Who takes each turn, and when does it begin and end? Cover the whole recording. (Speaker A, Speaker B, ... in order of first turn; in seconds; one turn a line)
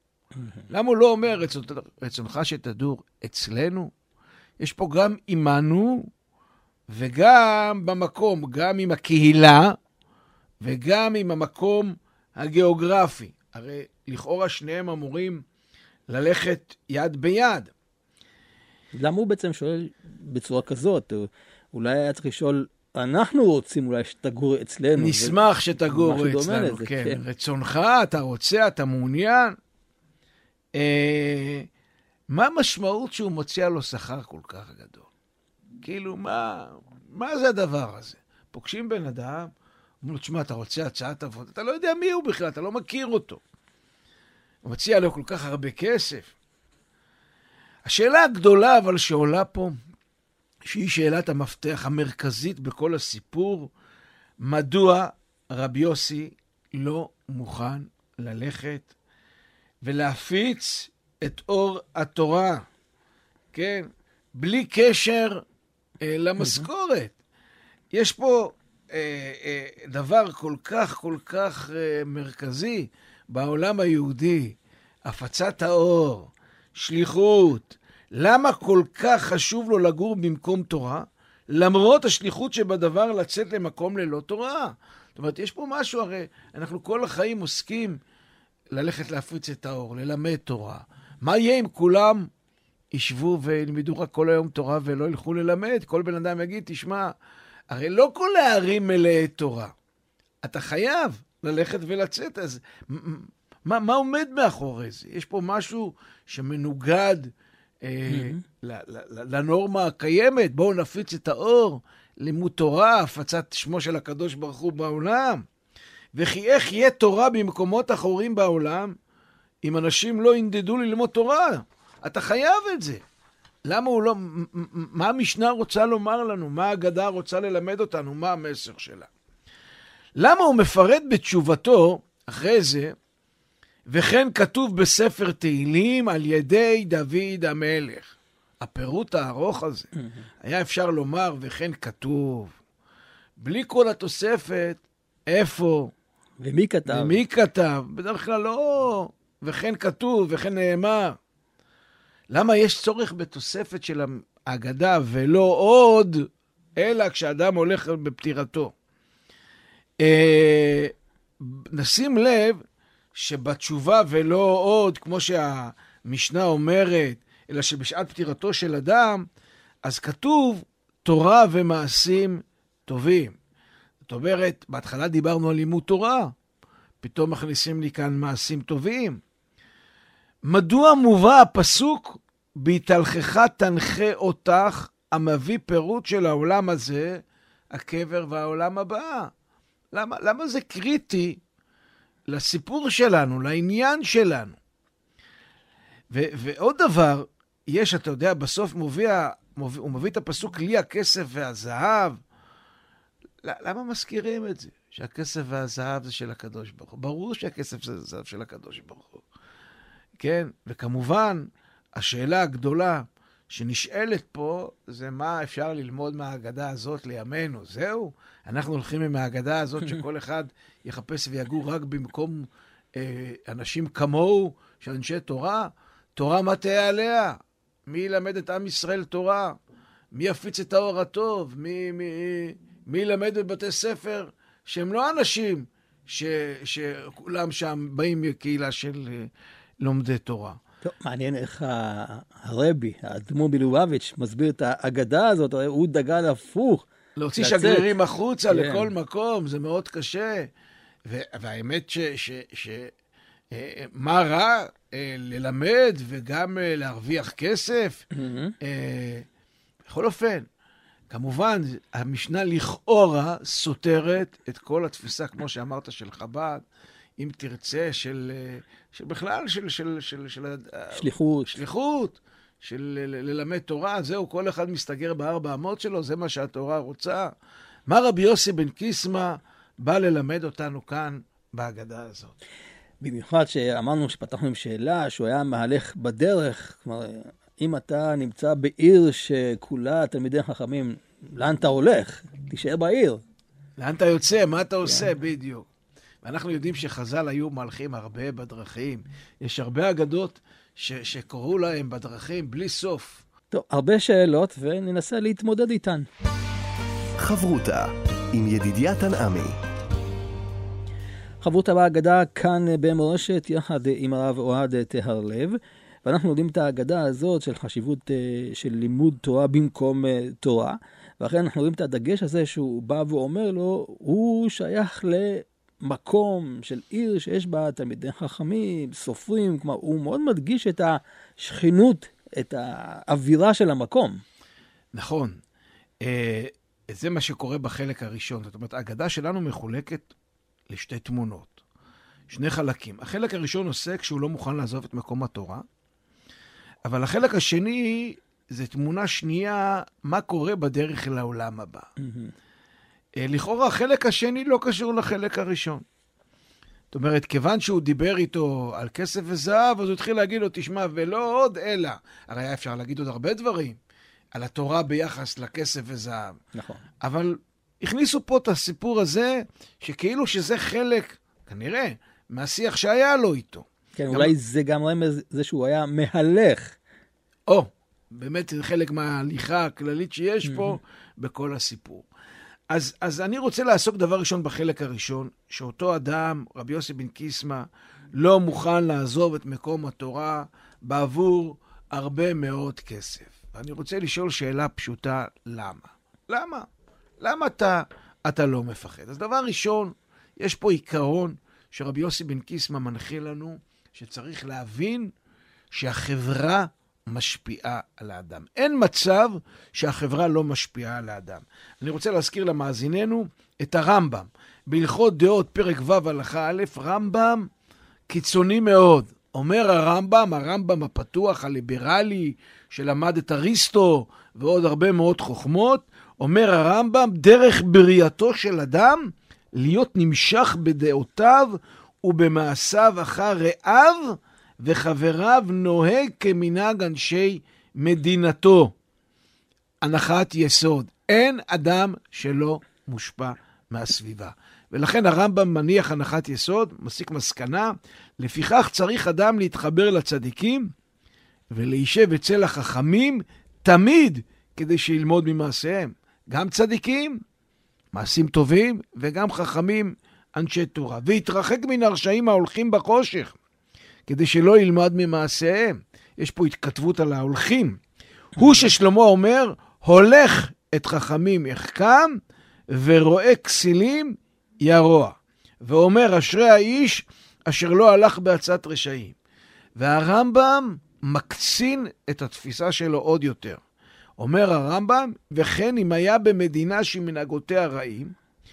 Speaker A: 0.7-3.9
Speaker A: 4.6-6.1
Speaker A: 6.9-9.8
Speaker A: 10.6-15.4
Speaker A: 16.1-17.7
Speaker B: 18.9-25.4
Speaker A: 25.0-29.6
Speaker B: 25.9-27.2
Speaker A: 30.8-31.7
Speaker A: 32.3-35.1
Speaker A: 35.8-39.5
Speaker A: 40.0-43.4
Speaker A: 44.6-46.3
Speaker A: 47.9-49.8
Speaker A: 50.6-53.7
Speaker A: 54.4-58.9
Speaker A: 59.8-62.6
Speaker A: 63.5-65.4
Speaker A: 66.0-67.1
Speaker B: 66.4-66.7
Speaker A: 67.9-88.0
Speaker A: 88.7-92.3
Speaker A: 92.9-97.1
Speaker A: 97.7-99.7
Speaker A: 100.4-107.3
Speaker A: 107.8-115.4
Speaker B: 108.1-108.4
Speaker A: 116.1-118.9
Speaker A: 119.6-123.0
Speaker A: 123.7-129.1
Speaker A: 130.2-132.9
Speaker A: 133.9-139.9
Speaker A: 140.4-142.5
Speaker A: 143.4-145.9
Speaker B: 146.4-147.2
Speaker A: 146.9-151.2
Speaker A: 152.3-158.7
Speaker A: 160.0-162.6
Speaker A: 163.1-169.2
Speaker A: 169.8-173.3
Speaker A: 174.0-176.3
Speaker A: 177.0-179.2
Speaker A: 180.4-189.3
Speaker A: 189.9-191.4
Speaker A: 192.3-194.6
Speaker A: 196.1-202.2
Speaker A: 203.4-209.2
Speaker A: 210.2-229.6
Speaker A: 230.1-239.3
Speaker A: 239.8-240.6
Speaker B: 240.8-247.9
Speaker A: 247.2-250.5
Speaker B: 248.5-248.9
Speaker A: 251.1-252.9
Speaker A: 253.5-258.0
Speaker B: 258.1-258.5
Speaker A: 258.6-259.2
Speaker A: 259.9-260.4
Speaker A: 261.1-266.6
Speaker A: 267.2-277.3
Speaker B: 270.9-271.6
Speaker A: 277.9-282.4
Speaker B: 283.0-293.2
Speaker A: 293.8-295.6
Speaker A: 296.2-303.2
Speaker B: 303.5-306.1
Speaker C: 307.2-309.6
Speaker B: 311.4-334.2
Speaker A: 334.9-335.4
Speaker A: 336.0-340.1
Speaker A: 340.7-341.6
Speaker A: 342.3-345.6
Speaker A: 346.9-351.9
Speaker B: 352.0-352.3
Speaker A: 353.2-355.8
Speaker A: 356.9-363.8
Speaker A: 364.3-366.4
Speaker B: 366.5-366.8
Speaker A: 367.0-374.3
Speaker B: 374.0-376.8
Speaker A: 377.5-382.1
Speaker B: 380.4-380.8
Speaker A: 382.7-396.6
Speaker A: 397.2-405.1
Speaker A: 405.7-417.5
Speaker A: 418.1-438.7
Speaker A: 439.8-450.7
Speaker A: 451.5-457.2
Speaker A: 457.9-463.3
Speaker A: 464.1-467.8
Speaker A: 468.4-472.2
Speaker A: 472.7-479.1
Speaker A: 479.8-483.6
Speaker A: 484.2-488.1